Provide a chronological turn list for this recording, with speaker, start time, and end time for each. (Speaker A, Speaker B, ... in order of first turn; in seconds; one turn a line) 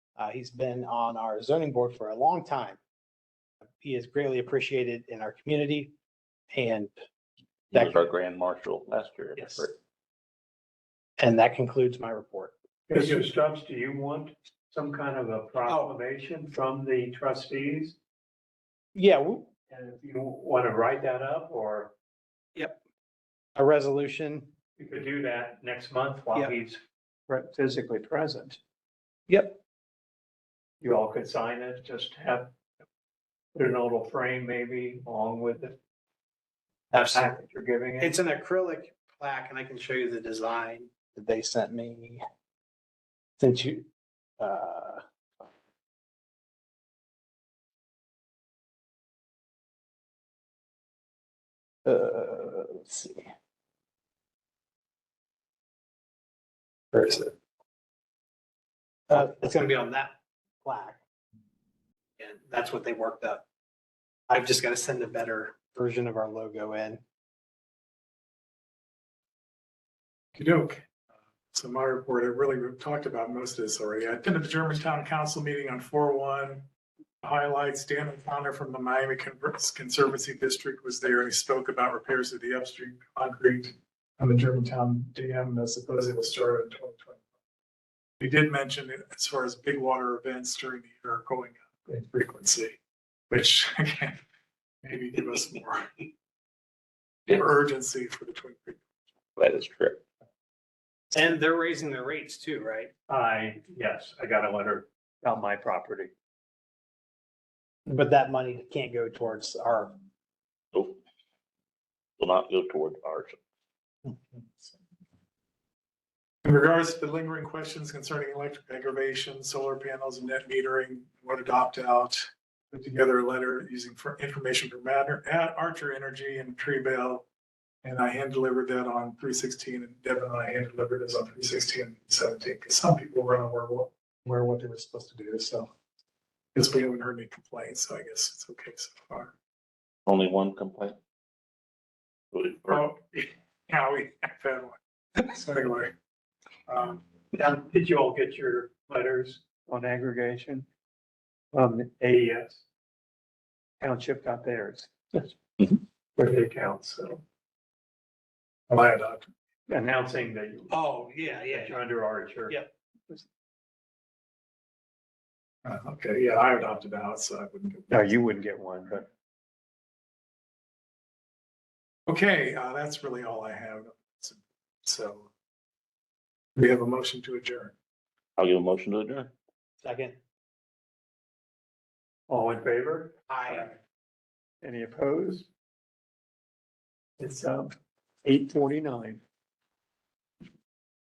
Speaker A: 0.2-2.8
Speaker A: 3.8-5.9
Speaker A: 6.5-6.9
Speaker A: 7.7-8.1
Speaker B: 7.7-9.7
Speaker A: 9.3-9.7
Speaker A: 11.2-12.5
Speaker C: 12.9-13.2
Speaker D: 12.9-17.9
Speaker A: 15.6-15.9
Speaker A: 18.9-19.5
Speaker D: 19.7-21.9
Speaker A: 23.6-24.5
Speaker D: 24.8-28.6
Speaker A: 29.3-29.6
Speaker D: 30.8-32.5
Speaker D: 33.5-35.8
Speaker A: 36.9-37.4
Speaker D: 37.0-38.1
Speaker A: 38.0-42.2
Speaker A: 43.4-43.9
Speaker A: 44.4-45.0
Speaker A: 51.8-53.3
Speaker A: 56.9-57.3
Speaker A: 59.1-61.0
Speaker A: 62.2-63.4
Speaker A: 64.3-67.0
Speaker C: 70.3-70.9
Speaker C: 71.5-76.7
Speaker C: 77.2-87.2
Speaker C: 88.2-92.8
Speaker C: 93.3-94.2
Speaker C: 94.8-96.0
Speaker C: 97.3-98.8
Speaker B: 99.4-100.0
Speaker A: 101.1-102.9
Speaker D: 103.1-106.1
Speaker A: 107.8-109.9
Speaker B: 110.7-111.0
Speaker B: 112.2-113.4
Speaker C: 116.4-127.2
Speaker C: 127.8-135.7
Speaker C: 136.5-139.3
Speaker B: 140.1-141.0
Speaker B: 142.3-142.8
Speaker C: 142.7-145.9
Speaker C: 146.7-147.0
Speaker D: 147.3-150.7
Speaker D: 151.5-152.6
Speaker D: 153.8-157.2
Speaker C: 158.7-159.3
Speaker D: 159.7-162.6
Speaker A: 160.7-161.8
Speaker C: 165.6-168.1
Speaker D: 167.9-169.1
Speaker C: 172.1-175.3
Speaker C: 176.6-177.7
Speaker B: 178.4-179.3
Speaker A: 179.8-180.2
Speaker D: 182.3-183.2
Speaker A: 183.3-183.7
Speaker D: 184.6-185.5
Speaker D: 187.2-189.2